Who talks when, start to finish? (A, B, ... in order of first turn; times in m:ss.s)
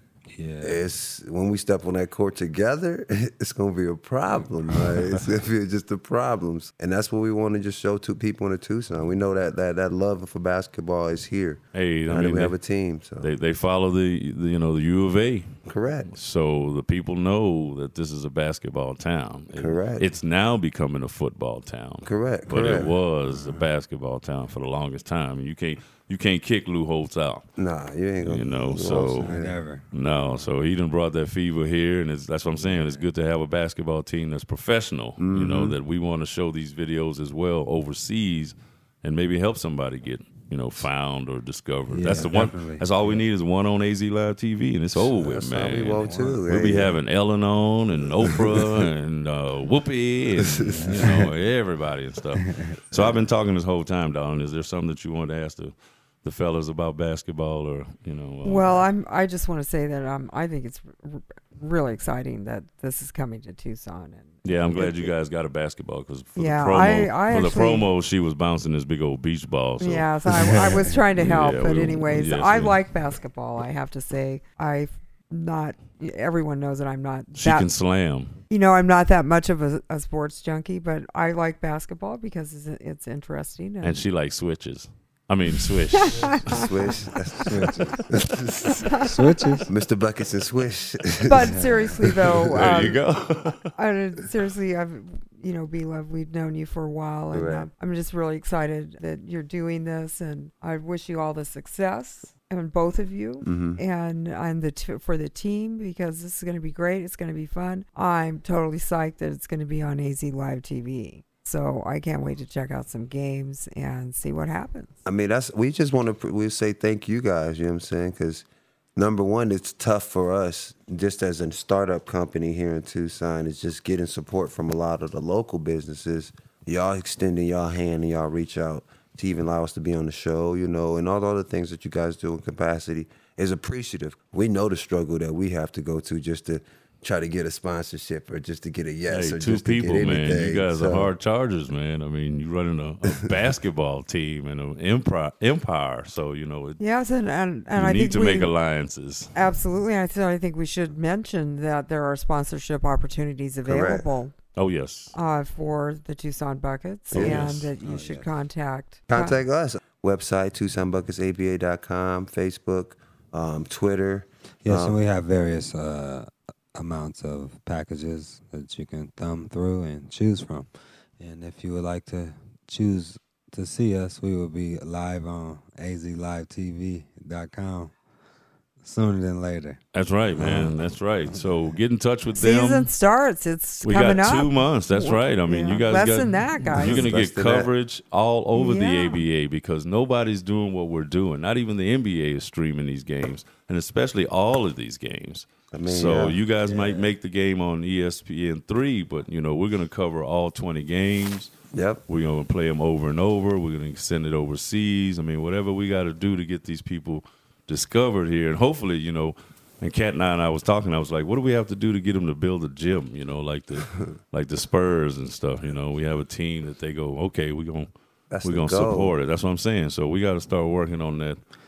0:00.3-0:00.8 A
0:00.6-0:13.3 B
0:04.7-0:05.2 A
0:11.7-0:12.5 C
0:13.2-0:15.5 C
0:15.7-0:16.1 B
0:16.1-0:27.5 C
0:19.5-0:20.1 B
0:22.0-0:22.9 B
0:23.3-0:23.6 A
0:27.6-0:29.6 B
0:28.2-0:29.4 C
0:29.1-0:29.9 A
0:29.9-0:58.8 C
0:32.6-0:33.0 A
0:35.2-0:35.8 B
0:41.9-0:43.2 A
0:44.9-0:47.0 B
0:46.0-0:46.4 A
0:48.2-0:48.6 B
0:50.5-0:51.2 B
0:50.8-0:51.2 A
0:52.4-0:52.7 A
0:58.4-1:05.1 D
1:04.4-1:10.1 C
1:06.4-1:07.9 D
1:09.8-1:17.7 D
1:10.5-1:11.0 A
1:11.2-1:12.8 C
1:17.4-1:18.4 C
1:18.5-1:24.0 D
1:23.8-1:26.6 C
1:26.0-1:26.6 D
1:26.5-1:28.9 B
1:27.4-1:28.1 A
1:28.8-1:29.4 D
1:29.0-1:29.7 A
1:29.7-1:33.0 B
1:31.2-1:33.0 D
1:31.4-1:31.8 A
1:32.5-1:33.7 C
1:33.7-1:55.0 D
1:37.3-1:37.7 B
1:43.4-1:43.8 B
1:55.0-2:21.1 B
2:19.1-2:26.8 C
2:26.8-2:28.5 D
2:27.7-2:29.3 C
2:29.4-2:34.3 D
2:33.6-2:34.1 B
2:34.6-2:35.1 C
2:35.1-2:39.4 D
2:37.1-2:37.6 B
2:37.1-2:37.7 C
2:37.8-2:38.3 A
2:39.1-2:45.0 B
2:44.6-2:57.9 A
2:58.8-2:59.8 A
2:59.9-3:02.9 C
3:00.4-3:01.8 A
3:02.4-3:07.0 D
3:03.8-3:21.5 C
3:06.8-3:07.7 B
3:08.5-3:09.2 D
3:15.7-3:16.4 B
3:21.7-3:22.0 B
3:22.1-3:37.9 C
3:38.3-3:39.2 B
3:38.4-3:41.4 C